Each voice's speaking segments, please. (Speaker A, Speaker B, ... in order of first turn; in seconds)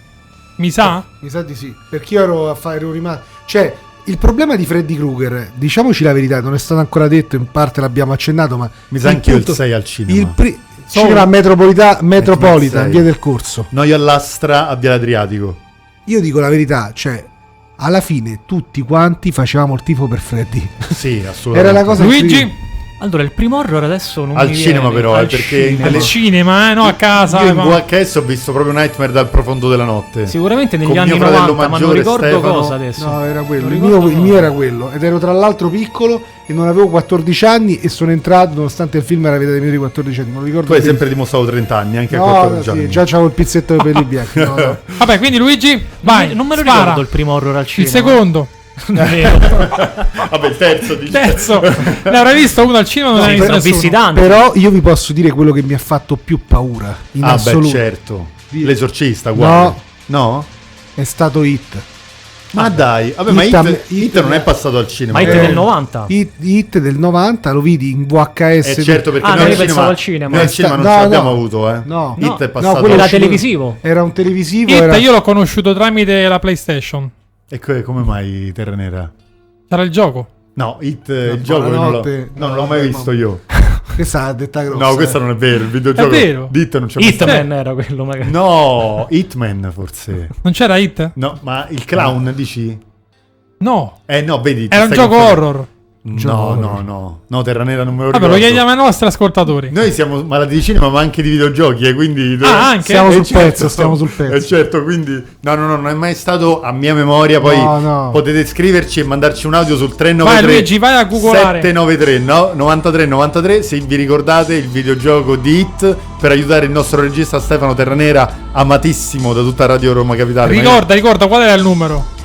Speaker A: 0.6-1.0, 10.9-11.3, 22.0-22.5, 25.8-27.8, 45.0-47.0, 47.8-48.5, 51.1-53.9, 74.7-77.1, 79.7-80.3, 86.0-86.5, 90.4-91.1, 93.6-94.0, 94.7-95.7, 98.1-99.8, 102.4-103.2, 110.2-111.7, 120.4-122.1
Speaker B: 0.8-13.7, 16.1-21.0, 21.5-22.5, 33.0-41.0, 42.1-44.8, 53.2-57.8, 59.3-59.8, 61.0-61.9, 62.5-64.5, 65.2-75.1, 81.2-83.1, 83.8-85.2, 96.1-96.8, 102.8-104.5, 107.4-108.2
Speaker C: 8.9-10.4, 12.2-13.1, 13.7-15.6, 20.9-22.1, 24.3-26.1, 26.8-32.8, 40.6-43.0, 44.3-45.0, 49.0-52.4, 57.2-60.5, 62.5-65.6, 68.6-73.3, 77.5-79.1, 80.5-83.5, 84.7-87.4, 88.2-90.3, 91.1-92.8, 94.1-95.5, 96.0-98.7, 99.7-120.8
Speaker D: 23.0-26.0, 30.3-34.5, 46.0-48.2, 48.8-49.9, 53.1-54.4, 65.1-66.1, 69.2-70.5, 72.2-73.8, 87.0-88.3